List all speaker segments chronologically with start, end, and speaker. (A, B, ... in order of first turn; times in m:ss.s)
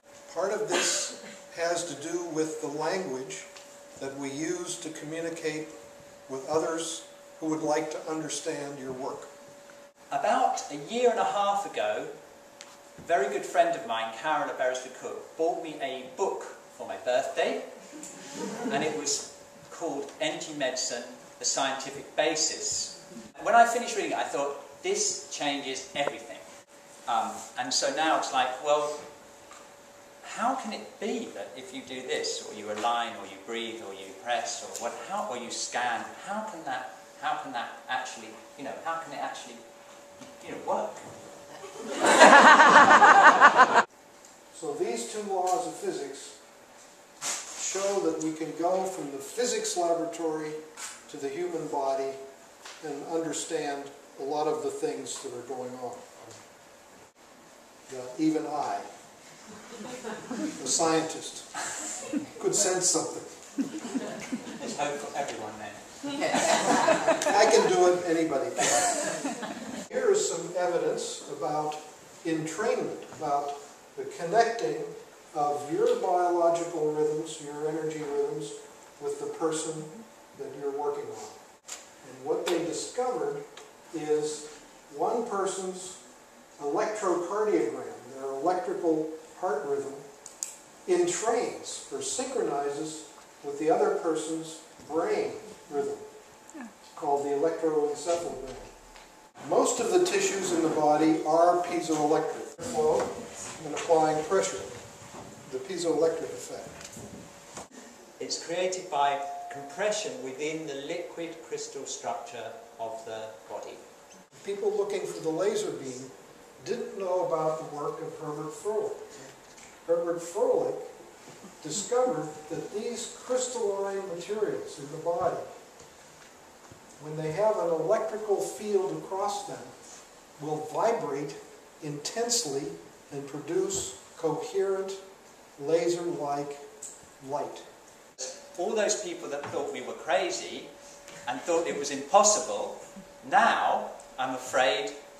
0:00.3-0:05.8 A
0:06.3-0:09.3 A
0:10.1-0:12.1 B
0:13.0-0:17.7 B
0:18.6-0:26.4 B
0:27.1-0:29.0 B
0:30.2-0:39.6 B
0:40.4-0:41.1 B
0:44.5-0:46.4 A
0:47.6-0:52.2 A
0:52.8-0:56.3 A
0:57.9-0:58.9 A
1:00.6-1:01.6 A
1:02.3-1:03.4 A
1:04.5-1:07.0 B
1:06.8-1:09.3 A
1:09.8-1:21.4 A
1:22.0-1:26.0 A
1:26.6-1:30.0 A
1:30.8-1:36.0 A
1:36.9-1:38.7 A
1:39.4-1:44.8 A
1:45.4-1:46.8 A
1:48.2-1:53.8 B
1:54.4-1:59.1 A
1:59.8-2:00.9 A
2:01.6-2:05.5 A
2:07.0-2:09.7 A
2:10.4-2:15.0 A
2:15.6-2:16.6 A
2:17.2-2:17.6 A
2:18.2-2:20.7 B
2:21.3-2:25.0 B